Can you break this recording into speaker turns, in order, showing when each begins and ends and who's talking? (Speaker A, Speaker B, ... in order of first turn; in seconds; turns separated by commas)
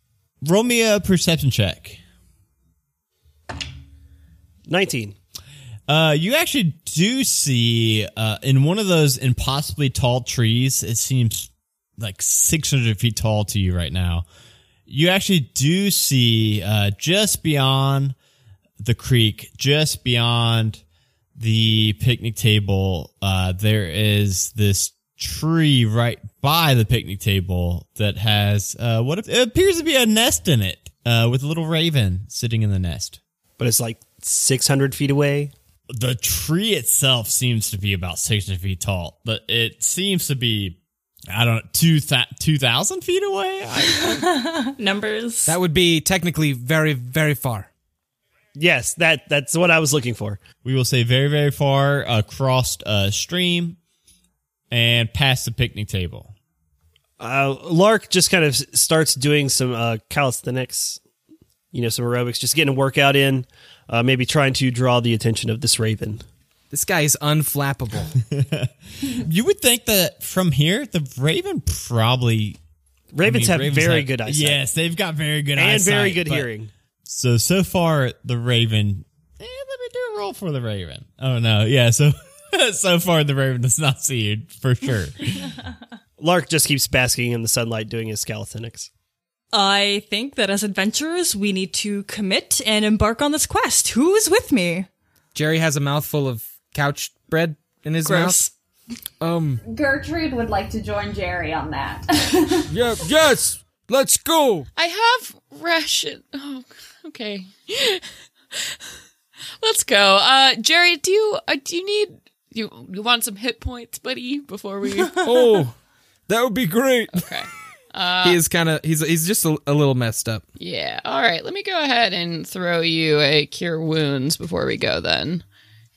Speaker A: 0.4-2.0, Speaker B: 4.7-5.2, Speaker A: 5.9-14.2, Speaker A: 14.9-18.2, Speaker A: 18.8-20.8, Speaker A: 21.4-33.2, Speaker B: 33.6-35.5, Speaker A: 35.9-40.8, Speaker A: 41.3-44.3, Speaker C: 43.8-45.6, Speaker D: 45.5-47.7, Speaker B: 48.6-50.4, Speaker A: 50.6-53.8, Speaker A: 54.7-56.3, Speaker B: 57.2-61.0, Speaker B: 61.7-66.2, Speaker D: 66.7-68.2, Speaker A: 68.2-72.6, Speaker B: 73.1-74.6, Speaker A: 73.2-76.5, Speaker B: 75.6-76.7, Speaker A: 77.1-85.5, Speaker B: 86.2-88.9, Speaker C: 89.5-94.9, Speaker D: 95.3-98.4, Speaker C: 98.0-98.5, Speaker E: 99.2-99.6, Speaker F: 99.7-102.7, Speaker E: 102.7-104.7, Speaker G: 104.8-108.9, Speaker G: 109.6-115.3, Speaker E: 115.2-115.8, Speaker E: 116.3-117.2, Speaker G: 117.1-118.4, Speaker D: 118.2-120.4, Speaker G: 120.6-125.4